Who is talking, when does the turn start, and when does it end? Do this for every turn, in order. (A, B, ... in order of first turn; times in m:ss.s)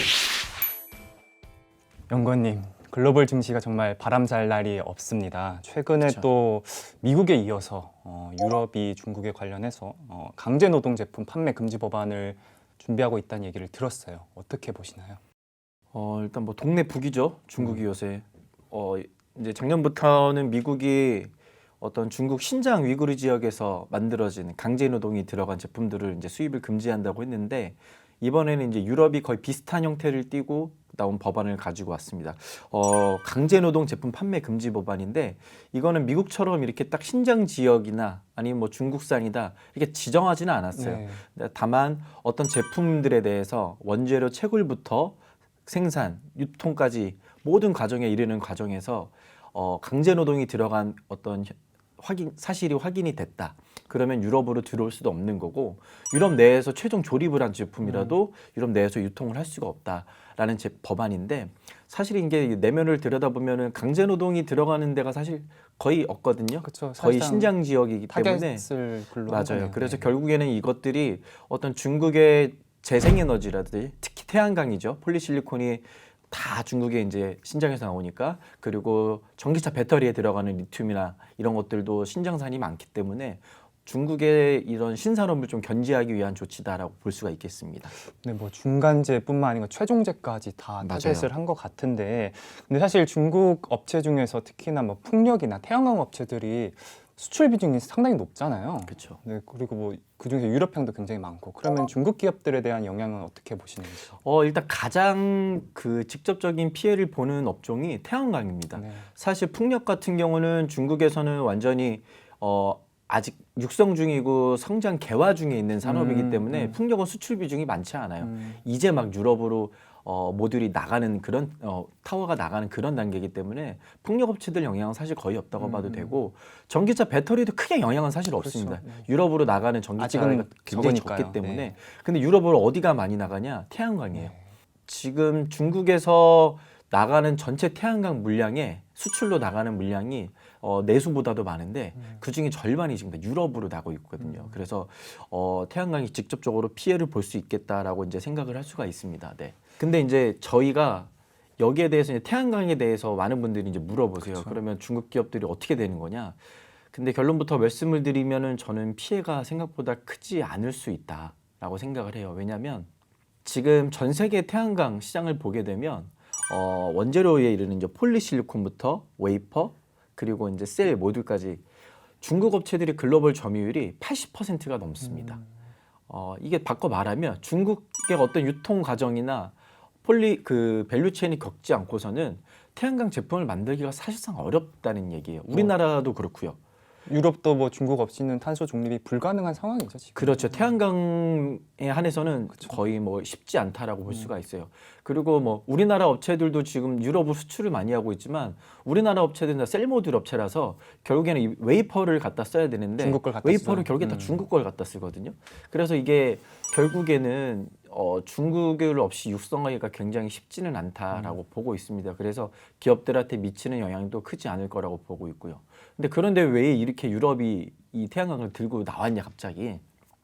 0:02.1-0:15.2 A
0:06.0-0:06.3 B
0:15.9-1:08.7 B
0:40.8-0:41.2 A
0:57.8-0:58.2 A
1:06.6-1:07.5 A
1:08.1-1:10.1 A
1:09.3-1:27.9 B
1:27.9-1:44.1 A
1:30.8-1:31.3 B
1:38.9-1:39.2 B
1:44.2-2:14.4 B
1:48.7-1:49.1 A
1:55.8-1:56.8 A
1:58.2-1:58.6 A
2:05.6-2:06.2 A
2:08.4-2:09.1 A
2:10.0-2:11.7 A
2:14.1-2:14.4 A
2:14.9-2:36.4 B
2:24.2-2:24.6 A
2:34.2-2:34.6 A
2:36.9-2:42.9 B
2:43.4-2:51.6 B
2:52.2-2:55.4 B
2:56.1-2:59.5 B
3:00.0-3:06.6 B
3:07.1-3:10.7 A
3:10.2-3:39.8 B
3:23.0-3:24.4 A
3:31.1-3:31.4 A